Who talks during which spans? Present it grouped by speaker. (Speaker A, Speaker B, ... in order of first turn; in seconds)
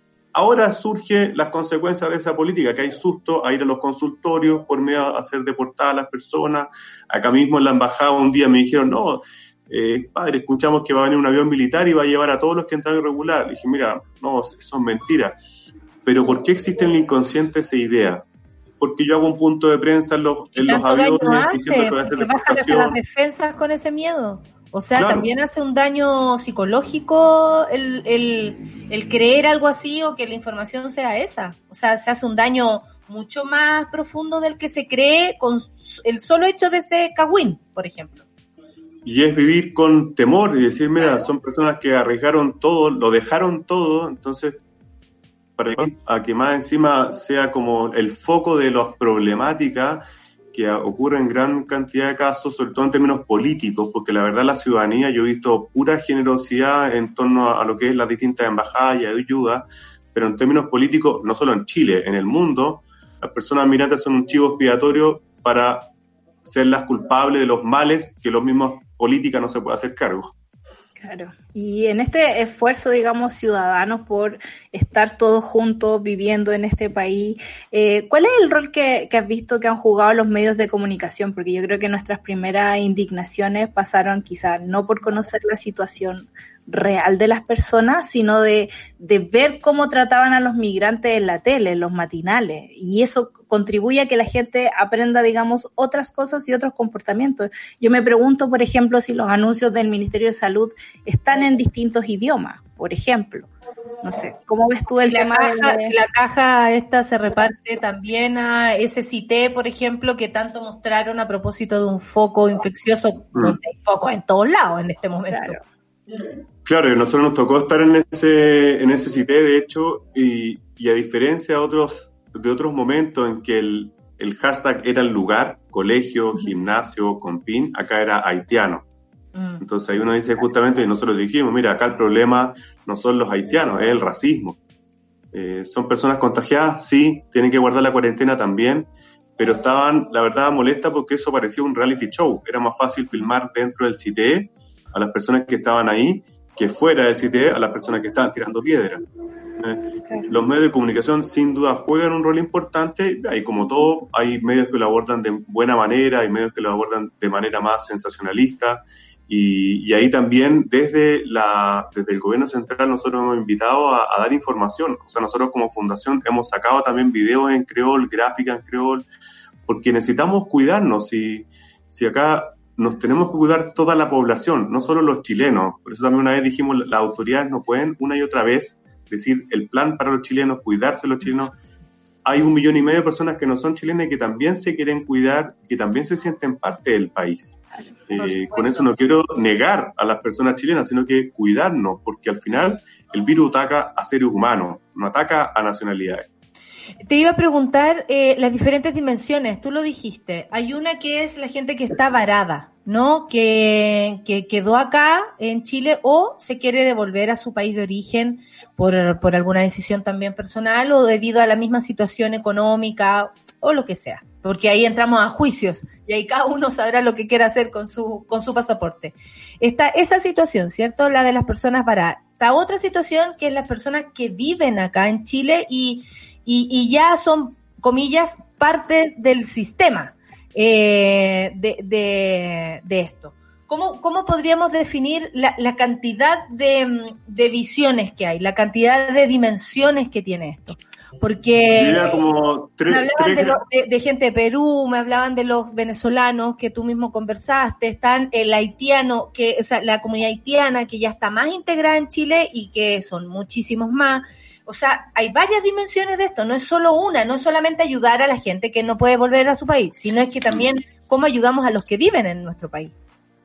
Speaker A: 0.3-15.4, 16.0-18.2, 18.8-23.0, 24.9-25.3, 39.0-44.6, 45.6-65.8, 66.5-70.3, 116.6-128.8, 129.6-134.6, 135.3-149.0, 149.6-169.1, 169.7-181.5, 182.2-187.6, 188.1-196.3, 241.7-243.6
Speaker B: 20.6-38.2, 105.1-115.6, 129.3-129.6, 188.2-188.9, 197.1-242.2, 242.9-262.9
Speaker C: 71.0-103.5, 104.0-105.9, 115.3-115.6